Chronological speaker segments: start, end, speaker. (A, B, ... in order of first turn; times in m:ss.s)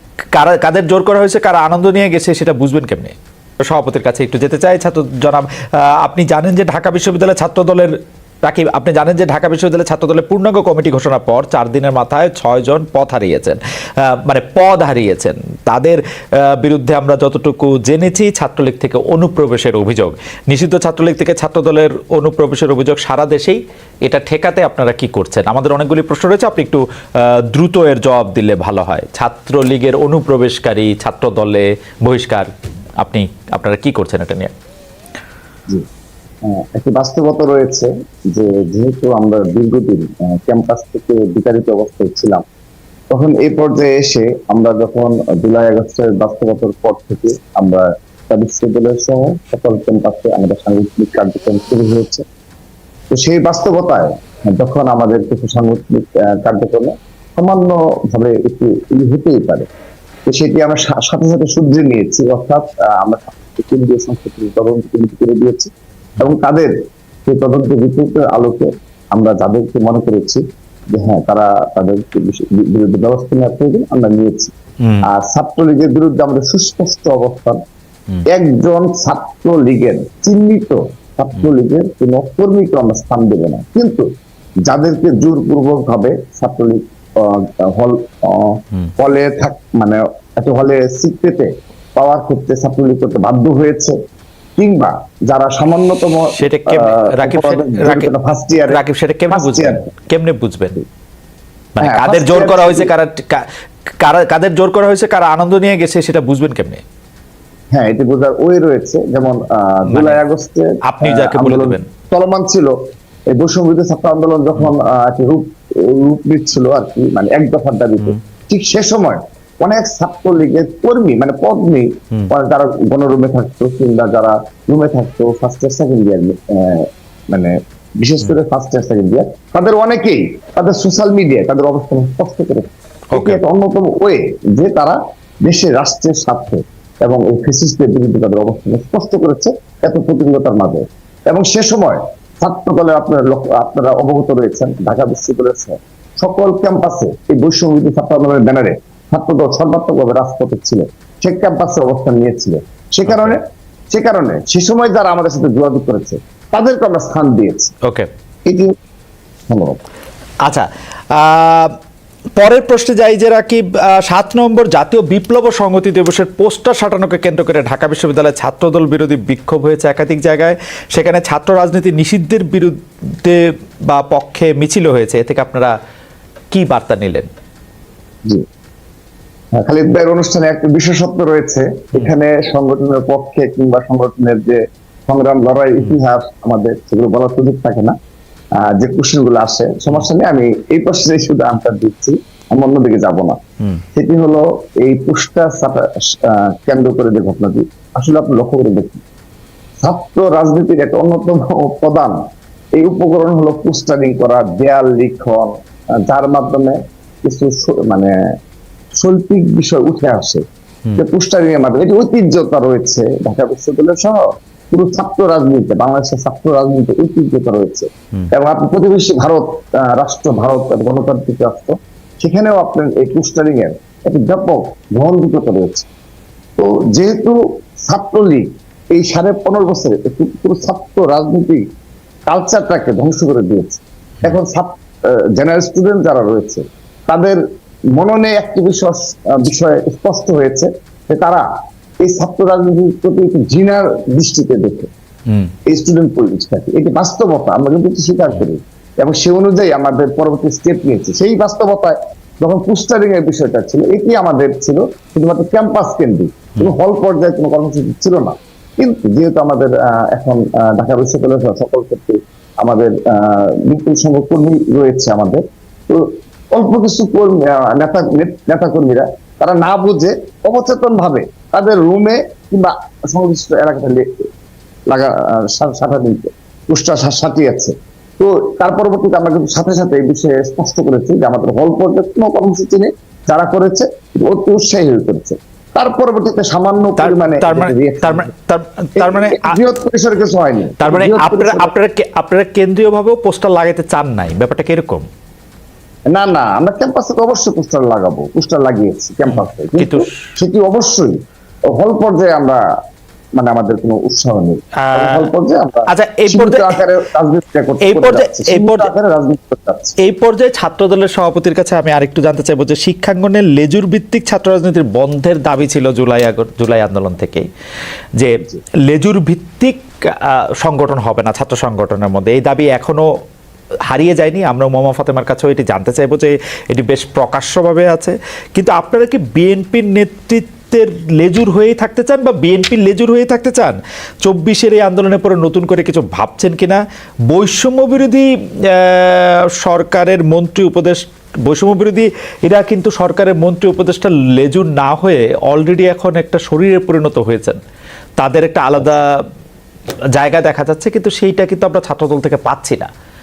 0:00.3-0:32.5 A
0:33.0-0:34.5 A
0:36.4-0:42.4 B
0:43.1-0:52.2 B
0:53.1-0:59.7 B
1:00.3-1:06.7 B
1:07.2-1:14.5 B
1:15.0-1:17.6 B
1:18.3-1:24.1 B
1:24.6-1:34.0 B
1:34.6-1:38.8 B
1:36.4-1:38.1 A
1:38.7-1:40.8 A
1:39.3-1:39.8 B
1:41.8-1:43.5 A
1:41.8-1:42.9 B
1:44.0-1:46.8 A
1:47.7-1:52.7 B
1:49.9-1:50.2 A
1:50.8-1:51.9 A
1:53.3-2:37.7 B
2:13.1-2:13.4 A
2:33.1-2:33.4 A
2:38.4-2:38.7 B
2:39.5-2:39.8 B
2:40.4-2:41.8 A
2:42.4-2:55.7 A
2:56.5-2:57.3 A
2:59.5-3:07.9 B
3:08.6-3:13.4 B
3:13.9-3:19.0 B
3:19.8-3:22.2 B
3:22.8-3:25.5 B
3:26.1-3:28.1 B
3:28.9-3:30.4 B
3:31.0-3:45.9 B
3:46.6-3:51.6 B
3:52.3-3:57.4 B
3:57.9-4:01.5 B
4:02.0-4:04.9 B
4:05.7-4:34.1 B
4:34.9-4:48.3 B
4:47.0-4:49.5 A
4:49.0-4:51.7 B
4:50.8-4:55.1 A
4:56.1-5:01.2 B
4:59.3-5:00.1 A
5:01.7-5:02.6 B
5:03.4-5:10.0 B
5:04.8-5:05.3 A
5:05.9-5:06.8 A
5:07.8-5:08.9 A
5:10.0-5:17.4 A
5:18.2-5:23.1 A
5:23.9-5:47.6 A
5:48.2-5:49.1 A
5:50.2-5:52.9 A